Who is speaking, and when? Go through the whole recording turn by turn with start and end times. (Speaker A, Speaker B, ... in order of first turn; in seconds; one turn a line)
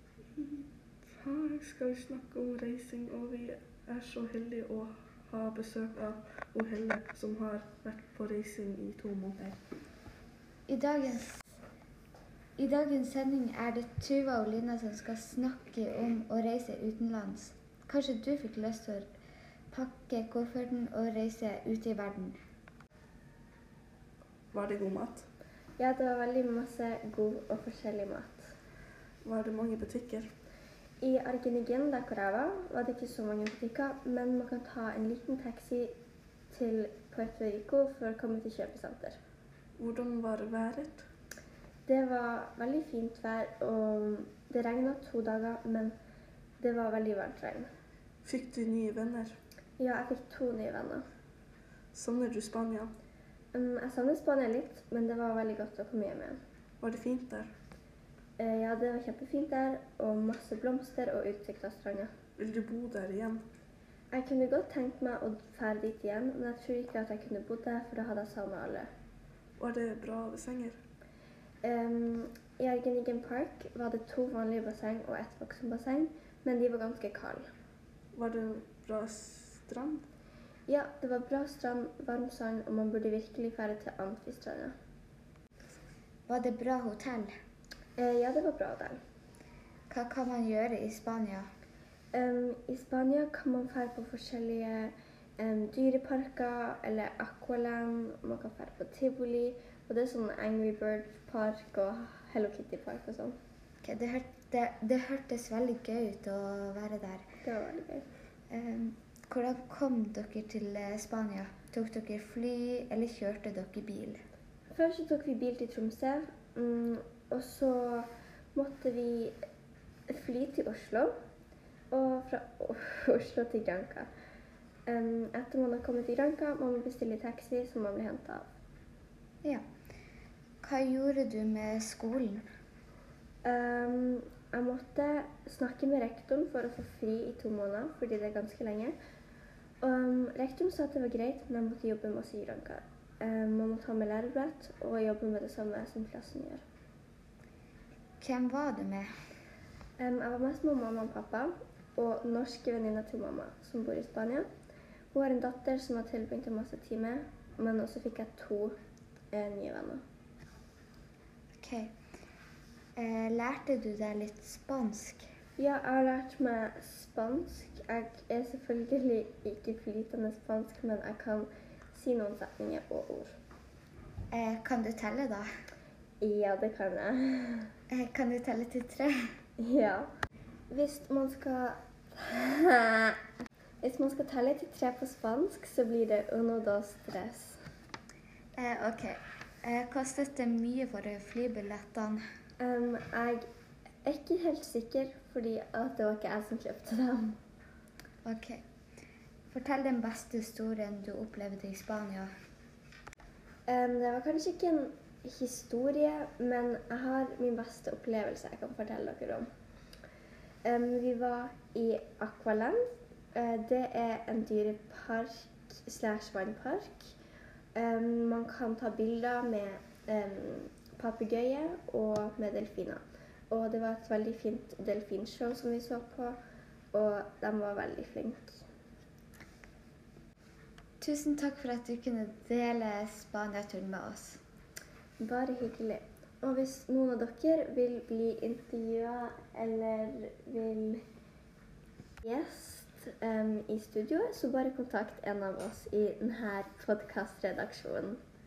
Speaker A: 0.4-0.6
Speaker A: 1.2-9.6
Speaker B: 10.7-11.4
Speaker B: 12.6-19.1
Speaker B: 19.7-22.4
Speaker A: 24.5-25.2
Speaker C: 25.8-28.5
Speaker A: 29.2-30.3
Speaker C: 31.0-36.0
Speaker C: 36.5-39.2
Speaker A: 39.8-41.0
Speaker C: 41.9-45.9
Speaker C: 46.6-47.7
Speaker A: 48.2-49.4
Speaker C: 49.8-51.0
Speaker A: 51.9-52.9
Speaker C: 53.5-56.4
Speaker A: 56.8-57.5
Speaker C: 58.4-62.1
Speaker A: 62.4-63.4
Speaker C: 64.1-68.9
Speaker A: 69.6-70.8
Speaker C: 71.6-77.5
Speaker A: 78.2-80.0
Speaker C: 80.7-84.7
Speaker B: 86.3-87.3
Speaker C: 88.0-89.0
Speaker B: 89.9-91.5
Speaker C: 92.1-103.3
Speaker B: 103.8-107.2
Speaker C: 107.4-108.1
Speaker B: 108.5-114.2
Speaker C: 114.7-119.4
Speaker C: 120.1-121.1
Speaker C: 121.9-124.1
Speaker C: 124.9-128.5
Speaker B: 130.6-132.5
Speaker C: 133.4-138.9
Speaker C: 139.8-146.6
Speaker B: 148.2-149.1
Speaker C: 150.0-154.5
Speaker C: 155.1-158.8
Speaker C: 159.3-160.0
Speaker B: 161.6-161.9
Speaker B: 163.0-165.2
Speaker C: 165.6-173.3
Speaker B: 174.3-175.5
Speaker C: 176.2-177.7
Speaker B: 177.9-179.2
Speaker C: 179.6-180.1
Speaker C: 180.7-183.2
Speaker C: 183.8-187.6
Speaker B: 188.6-192.2
Speaker C: 192.6-193.4
Speaker C: 194.1-197.4
Speaker B: 198.2-198.6
Speaker B: 199.5-202.3
Speaker C: 203.7-209.5
Speaker C: 210.6-212.8
Speaker C: 213.3-217.1
Speaker C: 217.8-226.4
Speaker C: 226.9-228.7
Speaker B: 231.0-234.4
Speaker C: 235.2-241.0
Speaker C: 242.2-248.2